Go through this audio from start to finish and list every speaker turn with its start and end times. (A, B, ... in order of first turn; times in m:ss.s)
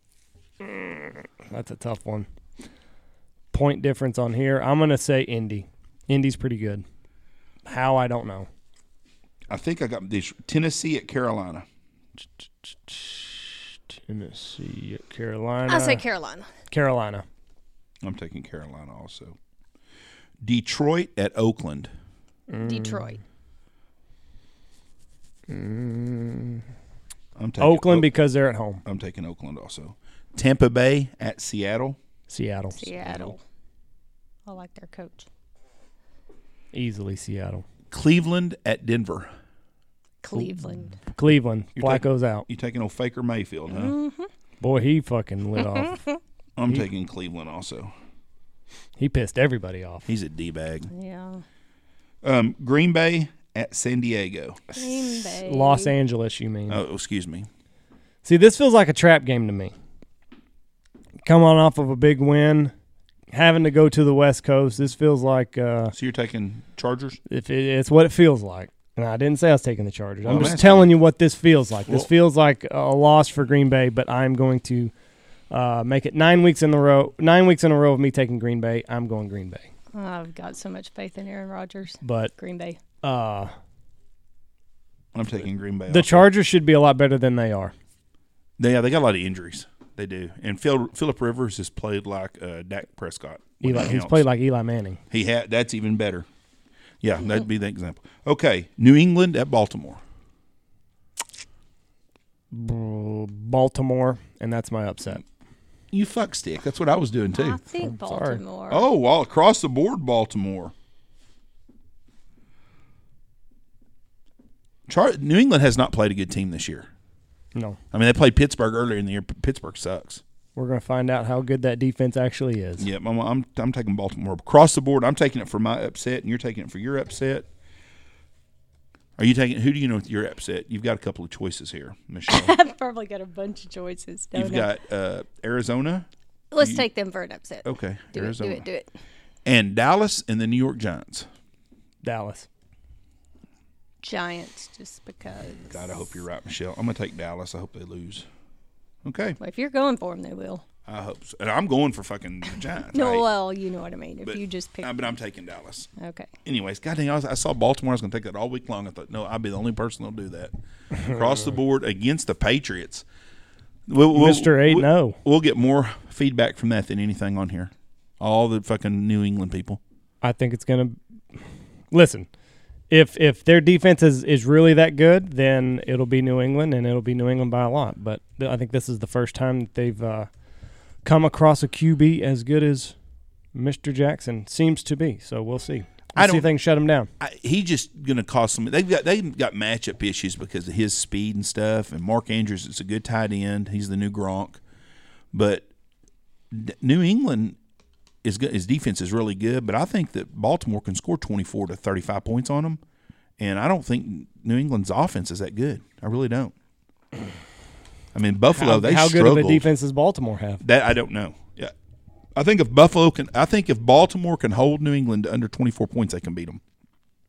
0:00.6-0:02.3 A
0:03.5-0:06.8 A
0:07.6-0:08.5 A
0:09.5-0:11.6 B
0:14.1-0:16.0 A
0:15.7-0:16.5 C
0:16.7-0:17.2 A
0:18.0-0:19.4 B
0:20.4-0:21.9 B
0:22.5-0:23.2 A
0:22.6-0:23.2 C
0:25.5-0:26.6 A
0:27.4-0:28.1 B
0:27.6-0:28.8 A
0:28.8-0:32.0 B
0:32.3-0:32.9 A
0:32.8-0:33.4 C
0:33.0-0:33.3 B
0:34.5-0:35.3 C
0:36.7-0:37.6 A
0:37.9-0:39.3 B
0:40.2-0:41.0 C
0:40.3-0:42.5 A
0:41.8-0:44.0 B
0:43.7-0:44.3 C
0:44.6-0:46.0 A
0:45.6-0:46.1 C
0:46.6-0:47.9 B
0:49.0-0:50.1 A
0:50.1-0:50.9 B
0:50.9-0:51.4 C
0:52.2-0:54.8 B
0:54.7-0:55.9 C
0:55.2-0:56.8 A
0:56.7-0:57.5 B
0:58.2-0:59.7 A
1:01.2-1:02.7 A
1:03.3-1:05.9 A
1:05.9-1:07.2 B
1:07.3-1:14.9 A
1:10.2-1:11.0 B
1:15.5-1:19.7 A
1:19.9-1:22.8 C
1:22.0-1:22.3 A
1:23.0-1:23.5 A
1:25.1-1:26.3 B
1:25.9-1:27.7 A
1:28.6-1:34.3 B
1:33.6-1:35.0 A
1:35.1-1:36.3 B
1:37.0-1:40.0 B
1:42.5-1:45.2 A
1:45.9-1:47.6 B
1:47.3-1:48.9 C
1:47.8-1:48.4 A
1:48.7-1:50.7 B
1:54.9-1:56.9 B
1:57.9-2:00.2 B
2:00.6-2:02.9 A
2:02.8-2:07.5 B
2:09.2-2:12.6 B
2:12.3-2:14.7 C
2:14.3-2:16.1 B
2:16.5-2:18.9 C
2:16.6-2:16.9 B
2:17.6-2:18.6 B
2:19.4-2:21.3 B
2:22.0-2:22.5 A
2:24.0-2:26.0 C
2:25.7-2:28.3 B
2:29.0-2:29.4 B
2:29.4-2:30.6 C
2:30.9-2:33.3 B
2:32.9-2:35.1 C
2:34.2-2:35.9 B
2:36.0-2:36.3 C
2:36.4-2:43.0 B
2:43.9-2:49.8 B
2:44.1-2:45.2 A
2:50.2-2:51.0 A
2:51.9-2:52.3 A
2:52.9-3:00.3 A
3:01.0-3:03.0 A
3:03.5-3:07.1 A
3:06.2-3:06.5 B
3:07.2-3:14.6 B
3:15.3-3:15.7 B
3:16.5-3:17.6 B
3:18.2-3:22.8 B
3:23.4-3:26.5 B
3:28.1-3:29.7 B
3:28.5-3:30.6 A
3:30.6-3:31.7 B
3:32.4-3:36.6 B